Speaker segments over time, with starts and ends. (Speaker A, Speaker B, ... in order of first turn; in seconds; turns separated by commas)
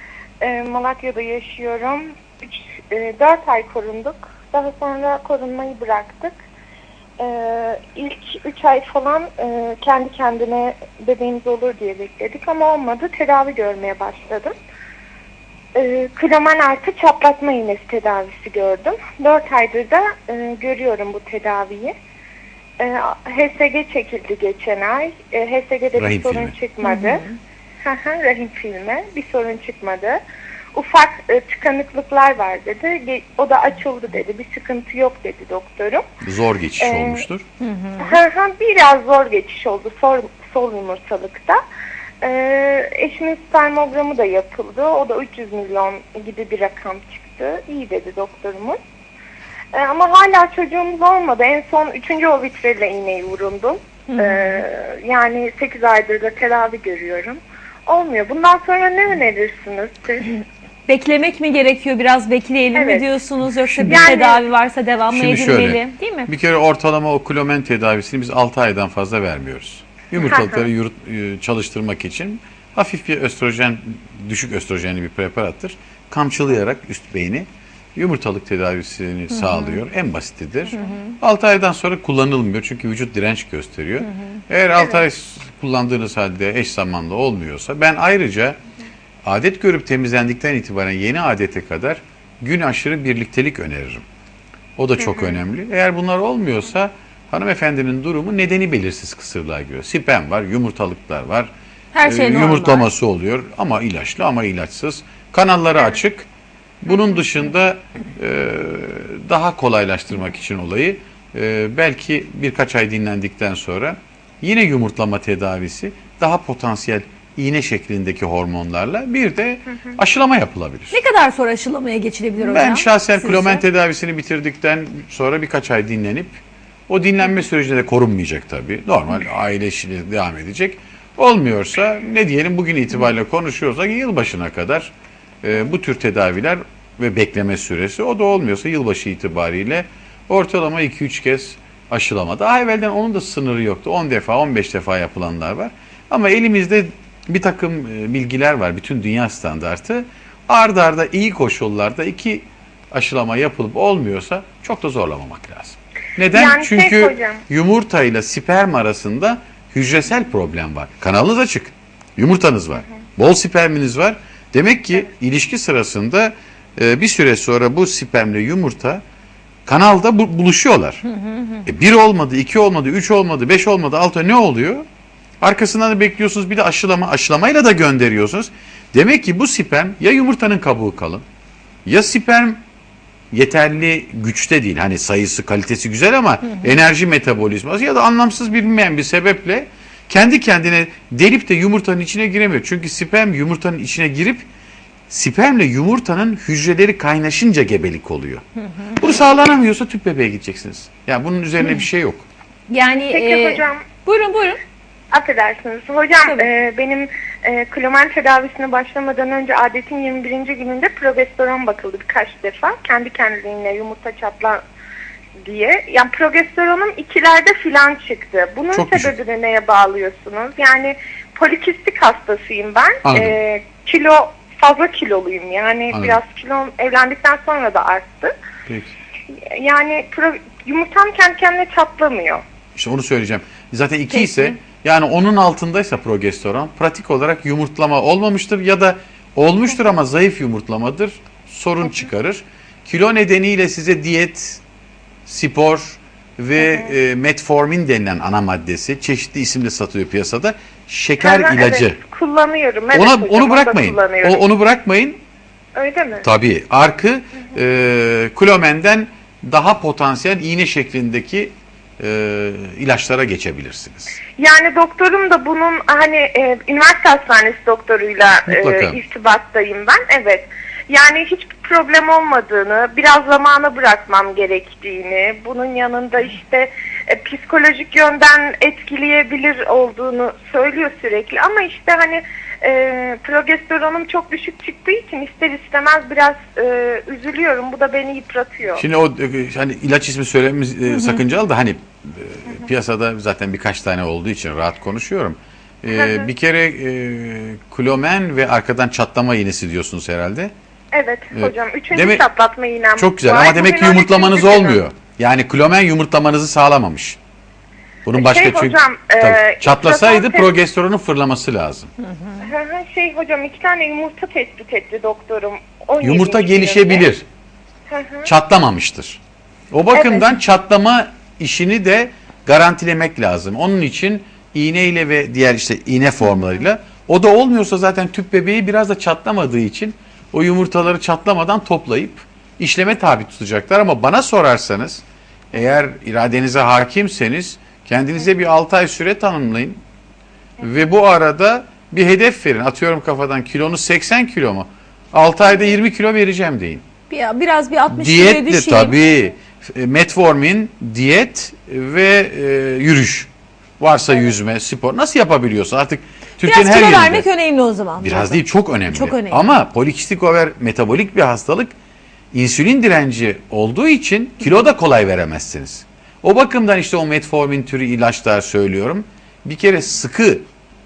Speaker A: 0.4-6.4, Speaker A: 7.2-14.5, Speaker A: 15.7-21.9, Speaker A: 22.8-27.2, Speaker B: 26.0-26.5, Speaker C: 26.8-27.3, Speaker A: 27.8-30.2, Speaker A: 30.7-36.0, Speaker B: 36.2-37.5, Speaker A: 36.8-37.2, Speaker C: 37.6-38.2, Speaker A: 38.0-41.6, Speaker A: 42.2-48.8, Speaker A: 49.7-60.3, Speaker C: 54.1-54.6, Speaker C: 60.9-66.3, Speaker A: 62.7-63.0, Speaker A: 63.8-64.4, Speaker B: 65.1-88.6, Speaker A: 70.2-70.7, Speaker C: 79.3-79.8, Speaker C: 80.7-81.2, Speaker C: 84.0-84.4, Speaker B: 89.2-94.0, Speaker B: 94.8-101.5, Speaker A: 95.0-95.4, Speaker C: 101.9-102.9, Speaker B: 102.0-106.3, Speaker B: 106.8-121.0, Speaker C: 120.9-123.6, Speaker B: 122.4-169.0, Speaker A: 156.3-157.4, Speaker B: 169.7-171.0, Speaker C: 171.1-171.6, Speaker B: 171.6-174.8, Speaker B: 175.4-181.2, Speaker B: 181.8-182.6, Speaker B: 183.3-194.5, Speaker B: 195.1-202.2, Speaker C: 202.7-204.6, Speaker A: 202.8-203.9, Speaker A: 205.1-214.6, Speaker A: 215.4-228.3, Speaker B: 218.7-219.1, Speaker B: 223.0-223.4, Speaker B: 225.9-226.2, Speaker B: 228.7-228.9, Speaker A: 229.3-232.4, Speaker B: 232.7-244.6, Speaker C: 234.1-234.5, Speaker B: 245.2-252.0, Speaker A: 246.6-246.9, Speaker A: 251.2-254.4, Speaker B: 252.9-255.2, Speaker A: 255.8-256.3, Speaker B: 256.2-264.2, Speaker A: 264.4-288.8, Speaker B: 268.4-269.0, Speaker B: 288.8-300.5, Speaker C: 290.9-291.2, Speaker A: 295.9-296.3, Speaker A: 300.9-304.8, Speaker B: 301.3-302.2, Speaker B: 302.9-307.2, Speaker B: 308.0-311.9, Speaker A: 308.1-310.5, Speaker A: 312.4-317.1, Speaker B: 316.0-317.2, Speaker A: 317.9-318.3, Speaker B: 318.2-319.2, Speaker B: 319.7-339.8, Speaker A: 319.9-320.3, Speaker B: 340.6-346.8, Speaker C: 347.1-349.0, Speaker B: 347.9-357.2, Speaker C: 356.4-359.4, Speaker B: 358.0-361.7, Speaker B: 362.3-370.4